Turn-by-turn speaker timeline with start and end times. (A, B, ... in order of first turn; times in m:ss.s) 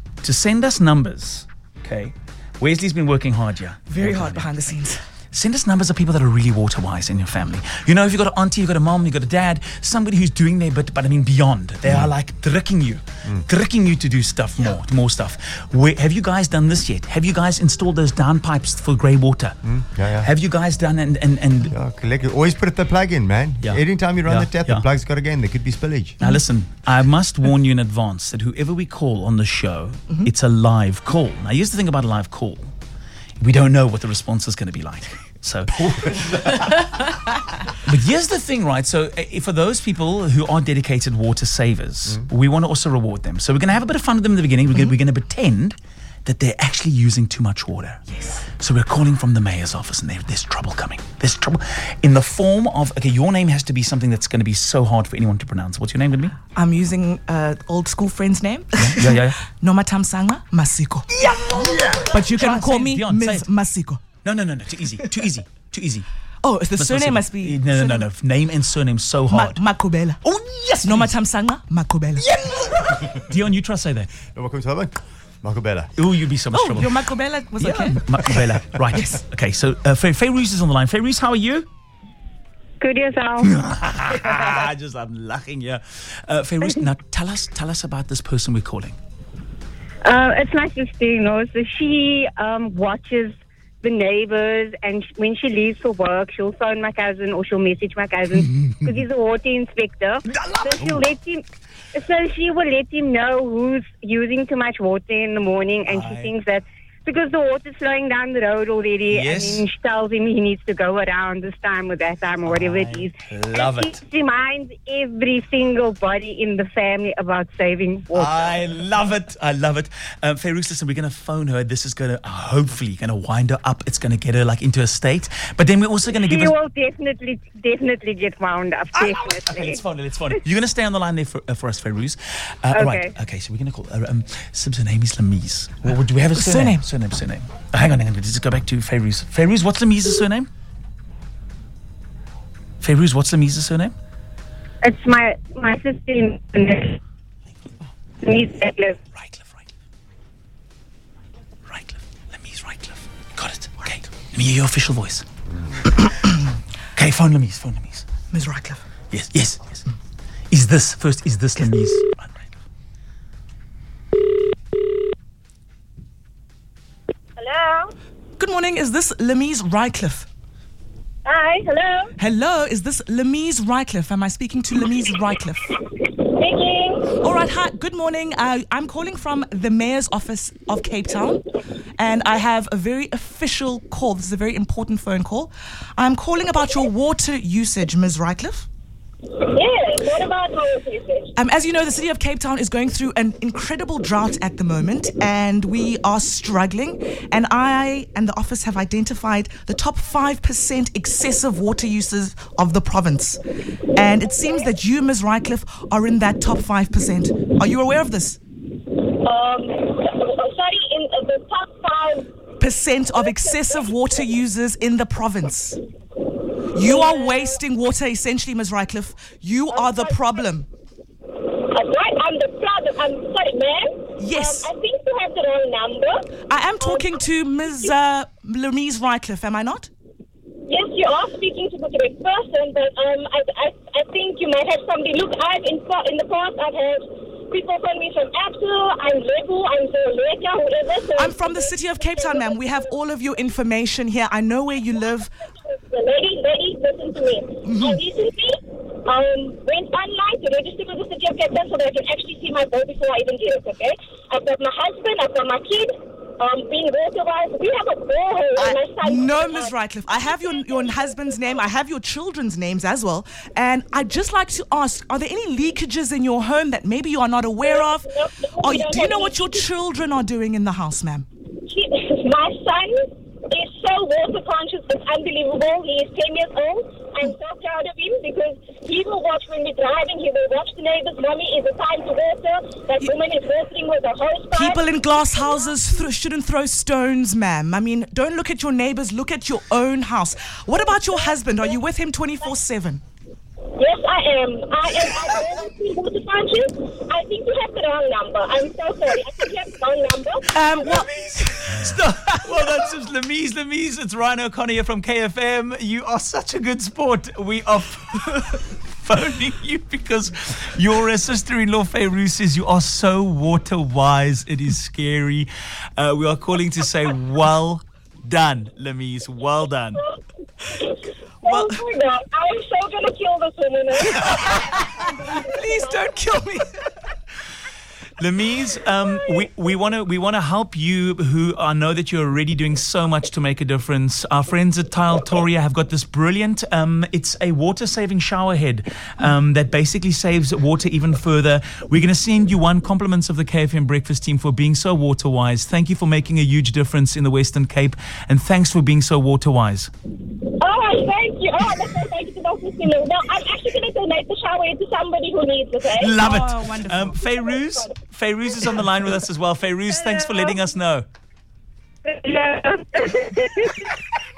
0:00.2-0:04.8 A
0:03.9-0:05.0 B
0:05.3-0:19.6 A
0:19.7-0:20.3 C
0:20.2-0:21.7 A
0:21.7-0:26.2 C
0:23.6-0:24.8 A
0:26.2-0:32.7 A
0:33.4-0:36.6 A
0:37.7-0:56.4 A
0:56.5-1:04.0 B
0:58.8-0:59.4 A
1:01.2-1:03.5 A
1:04.2-1:06.0 A
1:06.4-1:08.1 B
1:06.8-1:09.6 A
1:09.3-1:10.2 B
1:10.2-1:11.1 A
1:10.8-1:12.3 B
1:12.2-1:14.1 A
1:12.9-1:13.2 C
1:14.3-1:15.9 C
1:16.0-1:17.0 A
1:16.5-1:18.3 B
1:17.6-1:21.7 A
1:22.8-1:23.5 D
1:23.4-1:29.0 A
1:30.0-1:58.4 D
1:38.6-1:38.9 A
1:40.3-1:41.0 A
1:45.9-1:46.3 A
1:49.1-1:49.7 A
1:52.4-1:54.0 A
1:58.1-2:06.6 A
2:06.1-2:09.8 D
2:08.9-2:20.5 A
2:12.7-2:13.1 D
2:16.4-2:16.8 B
2:22.8-2:23.9 A
2:24.8-2:27.0 D
2:28.2-2:29.0 D
2:29.2-2:29.6 A
2:31.7-2:35.2 A
2:36.9-2:38.1 A
2:38.3-2:38.8 B
2:39.1-2:39.8 A
2:40.5-2:42.2 A
2:47.4-2:47.9 E
2:48.4-2:50.3 B
2:51.2-2:52.1 E
2:52.2-2:55.7 B
2:55.9-2:57.2 E
2:57.2-3:01.4 B
3:02.0-3:08.7 B
3:09.4-3:11.3 E
3:11.4-3:23.4 B
3:23.9-3:28.4 B
3:28.9-3:32.3 E
3:32.6-3:35.8 B
3:33.1-3:33.9 E
3:36.7-3:40.7 B
3:36.8-3:37.6 E
3:39.7-3:40.5 E
3:41.4-3:47.9 E
3:44.2-3:44.7 B
3:46.4-3:49.9 B
3:50.7-4:02.9 E
4:01.2-4:05.3 B
4:05.4-4:21.6 E
4:07.6-4:08.0 B
4:18.6-4:31.3 B
4:27.6-4:29.7 E
4:31.7-4:45.7 E
4:44.5-4:53.0 B
4:53.8-5:00.5 E
5:00.5-5:01.6 B
5:00.7-5:20.0 A
5:20.6-5:26.1 E
5:21.4-5:21.7 A
5:24.1-5:25.0 B
5:25.6-5:26.7 B
5:28.2-5:49.9 A
5:50.6-5:56.4 E
5:55.9-6:01.1 A
5:56.2-5:57.2 B
5:57.0-5:57.9 E
6:00.0-6:00.6 D
6:02.0-6:03.9 D